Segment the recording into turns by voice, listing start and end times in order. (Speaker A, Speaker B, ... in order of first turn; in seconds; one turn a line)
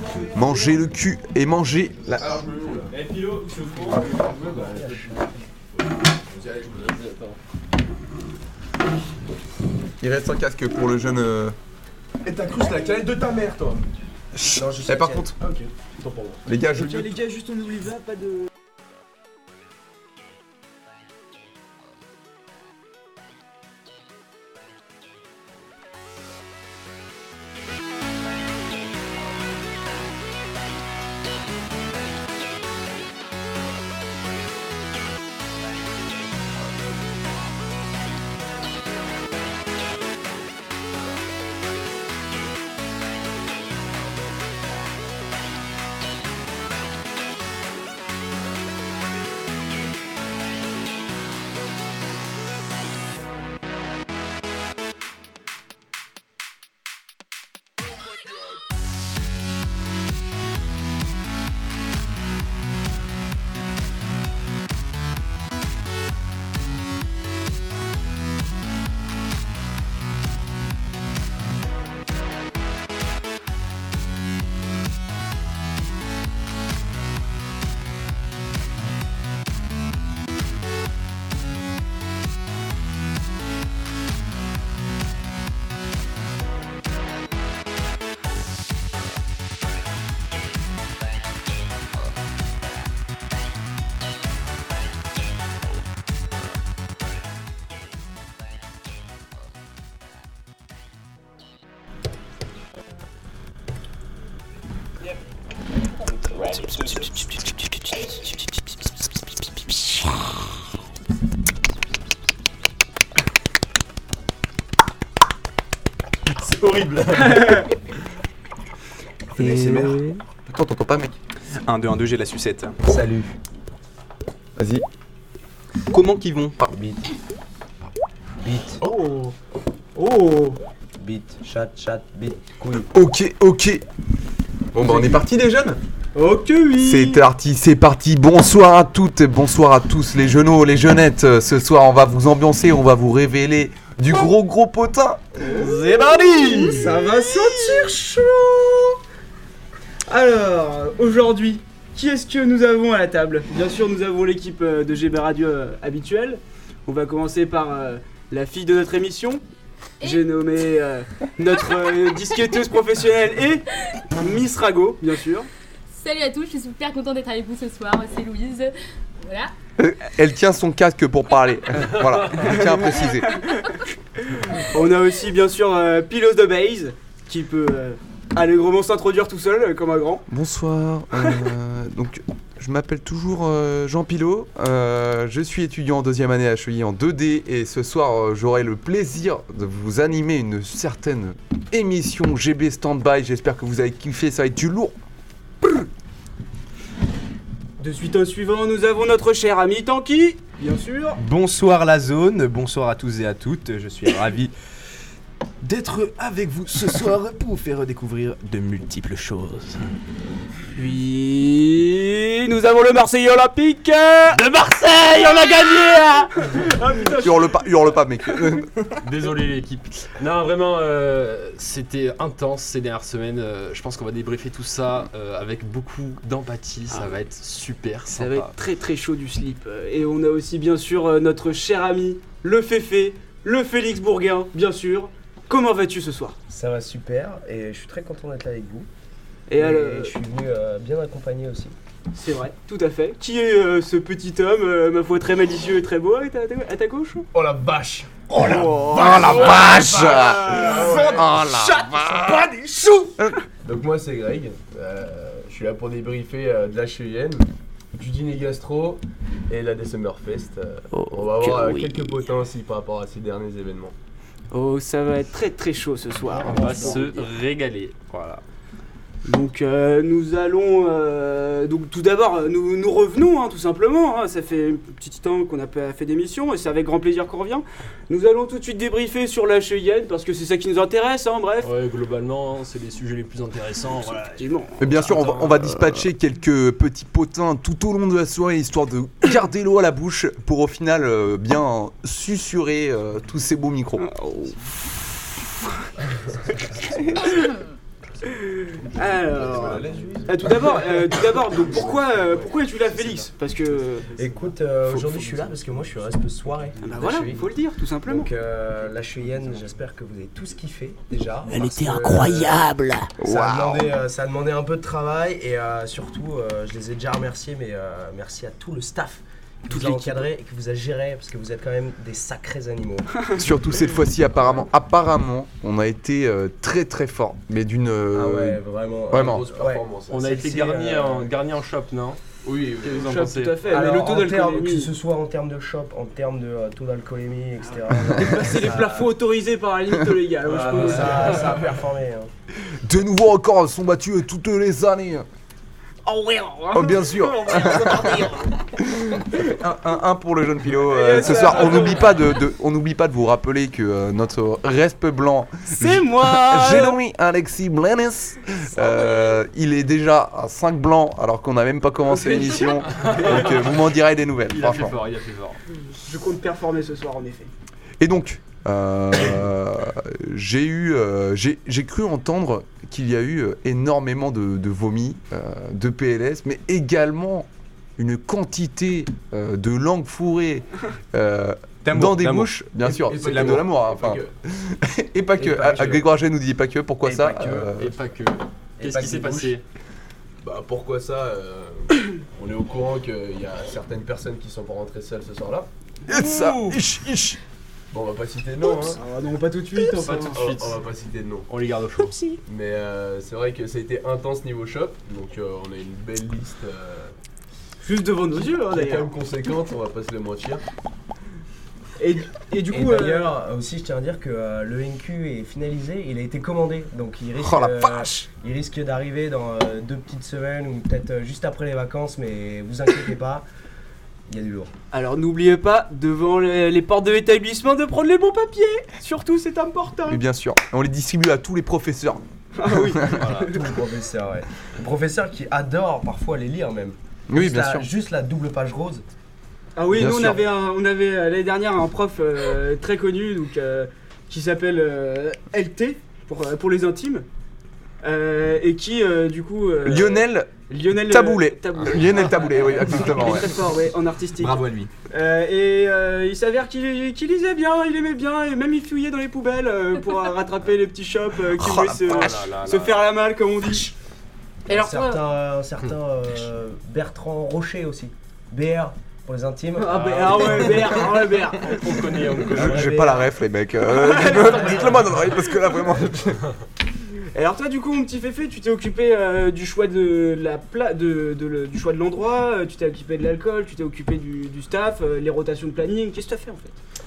Speaker A: 0.2-2.4
Speaker B: 2.1-5.2
Speaker C: 3.9-5.2
Speaker B: 6.3-7.3
Speaker A: 10.0-11.6
Speaker B: 12.2-13.8
Speaker A: 14.3-15.3
Speaker C: 14.5-15.4
Speaker B: 15.4-16.4
Speaker A: 16.5-17.1
Speaker D: 16.7-18.5
Speaker E: 116.2-117.7
Speaker D: 117.3-117.7
Speaker F: 119.3-120.2
Speaker A: 119.4-119.9
Speaker A: 120.5-121.2
Speaker F: 121.6-122.8
Speaker C: 122.8-123.3
Speaker A: 124.6-124.8
Speaker F: 125.9-126.6
Speaker C: 126.7-127.1
Speaker C: 128.4-128.8
Speaker D: 128.8-129.3
Speaker D: 129.9-130.6
Speaker C: 131.0-132.9
Speaker A: 132.9-133.8
Speaker A: 134.7-135.8
Speaker D: 134.8-135.2
Speaker D: 136.2-137.2
Speaker A: 136.8-147.0
Speaker D: 145.4-149.0
Speaker D: 150.1-159.4
Speaker G: 160.0-160.3
Speaker D: 160.0-165.5
Speaker G: 165.9-169.5
Speaker A: 169.8-173.4
Speaker D: 172.4-180.3
Speaker A: 180.3-195.0
Speaker D: 197.8-201.2
Speaker F: 201.2-204.5
Speaker F: 205.6-209.9
Speaker D: 210.7-218.4
Speaker A: 217.2-218.7
Speaker E: 219.0-228.5
Speaker D: 228.1-236.4
Speaker C: 236.5-238.9
Speaker D: 239.5-240.2
Speaker C: 239.6-241.8
Speaker D: 242.1-247.3
Speaker B: 247.3-251.3
Speaker D: 248.3-253.4
Speaker A: 248.8-252.5
Speaker B: 253.6-263.9
Speaker A: 261.0-262.1
Speaker D: 264.5-267.3
Speaker E: 266.4-268.4
Speaker D: 269.2-281.7
Speaker E: 281.6-284.5
Speaker D: 284.2-286.1
Speaker A: 284.8-294.1
Speaker D: 294.0-294.7
Speaker D: 296.8-297.6
Speaker D: 298.2-304.2
Speaker B: 299.2-302.5
Speaker C: 304.2-307.4
Speaker B: 304.9-305.4
Speaker D: 306.8-308.3
Speaker B: 307.0-307.5
Speaker C: 308.1-312.7
Speaker F: 311.5-313.2
Speaker D: 312.2-312.6
Speaker C: 313.2-323.3
Speaker A: 313.4-313.8
Speaker A: 323.4-329.5
Speaker C: 328.1-329.9
Speaker B: 329.1-330.5
Speaker E: 330.1-332.2
Speaker C: 330.6-331.3
Speaker B: 332.4-333.1
Speaker E: 332.8-333.8
Speaker D: 333.0-334.9
Speaker C: 333.7-339.1
Speaker D: 338.1-341.6
Speaker C: 340.5-342.3
Speaker B: 340.5-340.9
Speaker A: 342.8-345.3
Speaker D: 346.1-349.6
Speaker A: 346.7-348.3
Speaker A: 348.8-365.0
Speaker D: 350.8-352.4
Speaker D: 355.7-357.0
Speaker D: 362.3-362.6
Speaker E: 362.6-365.6
Speaker D: 366.0-367.5
Speaker A: 368.0-388.0
Speaker F: 381.8-383.7
Speaker B: 382.9-384.3
Speaker C: 385.4-386.1
Speaker C: 387.0-387.7
Speaker E: 387.8-389.6
Speaker C: 388.8-389.6
Speaker B: 390.4-395.7
Speaker D: 396.1-396.8
Speaker A: 396.1-397.4
Speaker B: 397.9-399.0
Speaker D: 398.6-400.6
Speaker E: 399.9-400.8
Speaker B: 400.3-401.5
Speaker E: 401.5-402.2
Speaker B: 402.5-407.1
Speaker D: 407.8-409.1
Speaker B: 408.4-410.6
Speaker D: 412.0-413.3
Speaker C: 412.7-423.4
Speaker A: 417.4-418.3
Speaker C: 424.3-424.7
Speaker D: 424.9-430.2
Speaker A: 430.1-433.3
Speaker D: 432.6-433.6
Speaker E: 433.1-433.6
Speaker C: 433.5-439.1
Speaker A: 437.3-437.9
Speaker D: 439.8-447.3
Speaker A: 439.9-440.4
Speaker D: 448.0-463.9
Speaker A: 449.8-453.6
Speaker F: 454.4-454.9
Speaker A: 461.6-462.3
Speaker E: 462.1-463.0
Speaker C: 464.7-470.9
Speaker G: 464.7-465.2
Speaker D: 469.8-471.9
Speaker E: 469.9-472.9
Speaker C: 472.4-473.3
Speaker A: 472.5-476.4
Speaker D: 473.9-475.9
Speaker D: 477.3-486.8